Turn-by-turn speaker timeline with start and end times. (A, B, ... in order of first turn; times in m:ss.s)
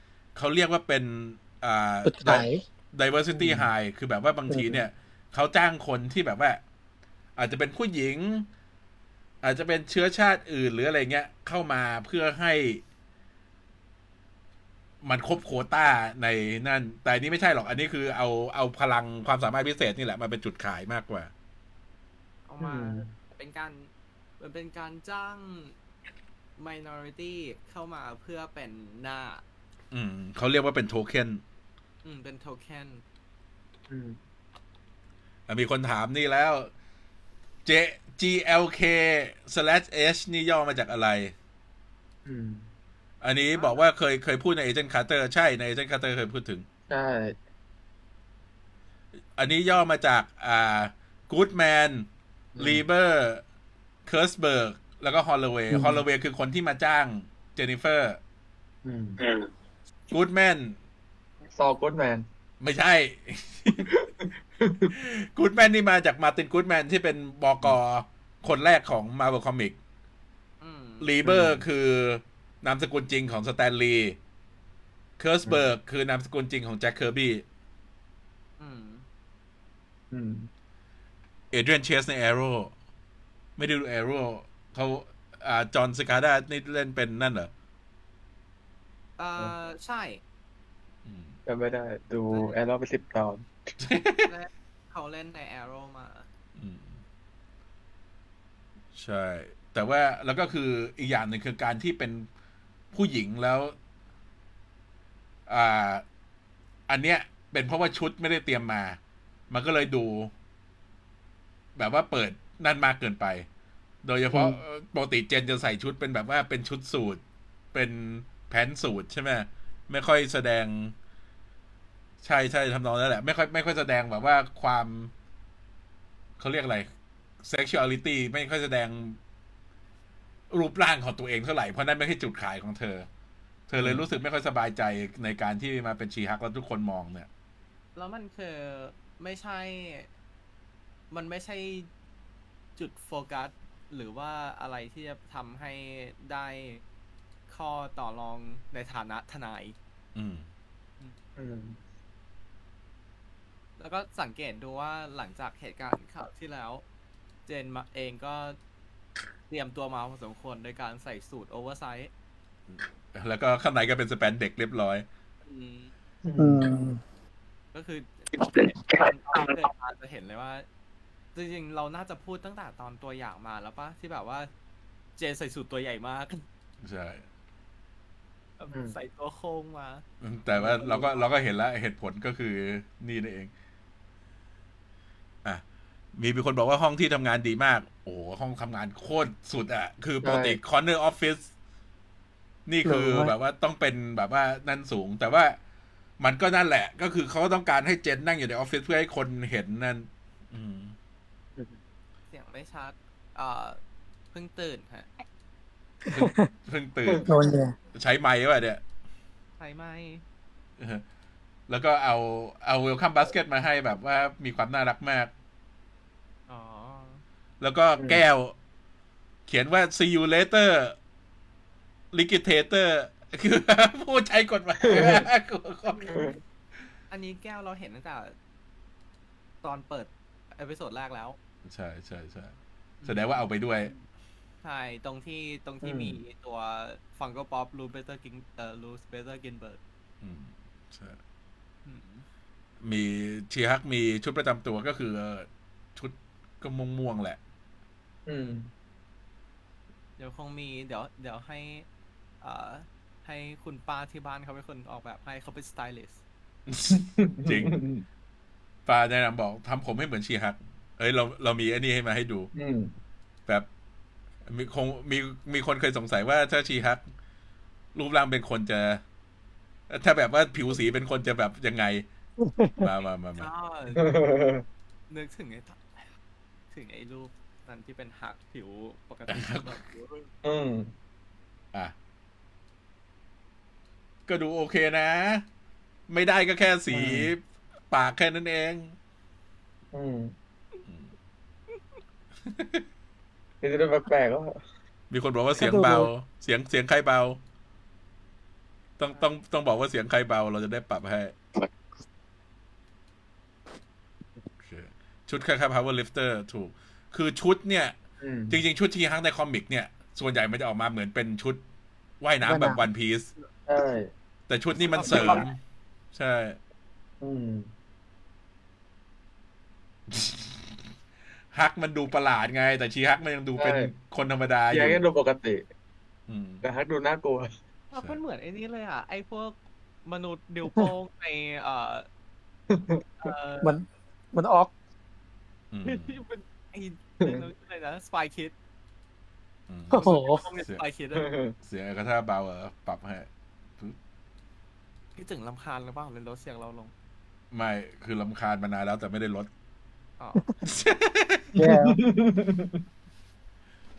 0:00.3-0:06.6 A
0:02.0-0:02.6 B
0:04.5-0:04.8 B
0:07.4-0:08.5 A
0:09.4-0:12.8 A
0:15.0-0:21.3 A
0:22.4-0:25.7 C
0:22.6-0:23.1 D
0:26.6-0:29.4 C
0:29.9-0:31.4 A
0:32.0-0:33.0 C
0:33.9-0:34.2 D
0:35.5-0:36.7 A
0:37.6-0:41.3 A
0:42.2-0:42.7 D
0:43.2-0:46.6 A
0:46.9-0:47.4 D
0:49.4-0:53.4 A
0:52.6-0:52.8 D
0:54.0-0:58.2 A
0:55.7-0:56.0 D
0:58.8-0:59.2 D
1:00.1-1:00.8 A
1:01.5-1:02.2 D
1:02.6-1:03.9 A
1:03.8-1:04.9 D
1:04.9-1:09.8 A
1:10.6-1:11.2 C
1:11.0-1:14.2 A
1:11.2-1:11.6 D
1:15.2-1:17.4 A
1:18.6-1:19.0 C
1:20.1-1:20.5 D
1:21.5-1:22.7 A
1:23.6-1:27.5 A
1:29.2-1:30.2 C
1:31.0-1:31.4 A
1:31.4-1:33.5 D
1:32.3-1:32.6 C
1:33.8-1:34.3 A
1:34.2-1:36.2 C
1:36.6-1:37.0 A
1:38.9-1:42.3 A
1:42.9-1:43.7 A
1:45.5-1:46.0 A
1:46.9-1:49.0 A
1:49.5-1:50.3 A
1:51.8-1:53.4 A
1:54.0-1:57.2 A
1:54.3-1:54.6 B
1:57.7-2:00.9 A
2:02.2-2:05.1 A
2:06.4-2:06.9 A
2:07.4-2:09.2 A
2:10.5-2:13.1 A
2:13.7-2:17.3 A
2:13.8-2:14.0 D
2:18.0-2:20.1 C
2:21.1-2:21.9 C
2:22.8-2:26.8 C
2:27.5-2:29.8 C
2:30.1-2:30.5 A
2:31.4-2:31.8 D
2:33.8-2:36.8 C
2:37.4-2:38.6 C
2:39.5-2:42.1 C
2:42.7-2:45.0 A
2:45.4-2:45.9 C
2:46.2-2:46.7 D
2:46.4-2:47.0 B
2:47.7-2:50.6 C
2:51.3-2:54.5 C
2:55.2-2:56.4 C
2:56.8-2:57.2 A
2:58.6-3:01.2 C
3:00.2-3:03.5 A
3:06.2-3:11.5 A
3:10.2-3:10.6 D
3:12.6-3:15.6 A
3:12.9-3:13.3 D
3:16.2-3:20.9 A
3:22.3-3:23.8 C
3:24.3-3:25.1 C
3:26.1-3:26.5 B
3:26.1-3:27.3 A
3:27.2-3:27.7 B
3:27.9-3:28.8 A
3:29.6-3:30.2 C
3:30.8-3:31.0 A
3:31.7-3:35.3 A
3:36.5-3:37.2 C
3:37.6-3:38.5 A
3:39.5-3:41.0 A
3:42.1-3:46.2 A
3:44.8-3:45.3 D
3:46.1-3:46.4 D
3:47.1-3:48.4 C
3:49.6-3:51.4 C
3:51.6-3:53.9 A
3:53.0-3:53.4 C
3:54.6-3:59.8 C
3:55.8-3:56.2 D
4:00.2-4:01.2 A
4:01.8-4:02.2 C
4:02.8-4:07.4 A
4:08.3-4:08.7 D
4:10.2-4:11.8 C
4:12.4-4:16.2 C
4:16.7-4:17.8 A
4:16.9-4:18.0 D
4:18.8-4:22.5 A
4:22.5-4:22.9 D
4:24.4-4:27.0 A
4:27.9-4:29.0 A
4:29.9-4:32.0 A
4:32.4-4:32.8 B
4:32.8-4:33.5 A
4:33.4-4:34.2 C
4:33.9-4:34.6 D
4:35.1-4:36.1 C
4:36.7-4:40.3 C
4:39.3-4:39.8 A
4:40.4-4:40.9 D
4:44.3-4:45.4 A
4:46.1-4:48.9 A
4:46.9-4:47.3 D
4:49.9-4:50.3 D
4:52.4-4:52.8 A
4:53.6-4:54.6 D
4:55.1-4:57.4 A
4:55.6-4:56.1 B
4:59.0-5:01.3 A
5:04.6-5:08.0 A
5:08.2-5:08.6 D
5:08.5-5:11.6 A
5:12.2-5:13.3 A
5:12.4-5:12.8 B
5:13.7-5:14.1 D
5:14.5-5:15.6 A
5:15.0-5:15.4 D
5:15.0-5:15.4 C
5:16.1-5:16.6 A
5:17.2-5:17.7 D
5:20.1-5:20.8 A
5:21.5-5:25.0 A
5:23.6-5:23.9 D
5:24.7-5:25.6 D
5:26.3-5:26.6 A
5:26.6-5:27.5 D
5:27.9-5:32.1 C
5:32.7-5:33.0 D
5:33.2-5:33.7 C
5:33.6-5:34.7 B
5:35.7-5:36.2 A
5:35.8-5:38.5 C
5:39.7-5:40.0 A
5:39.9-5:40.4 B
5:40.0-5:41.3 C
5:41.1-5:41.5 D
5:41.6-5:44.0 A
5:45.2-5:46.9 C
5:47.5-5:49.5 A
5:50.6-5:51.6 A
5:51.6-5:52.0 B
5:51.6-5:52.8 D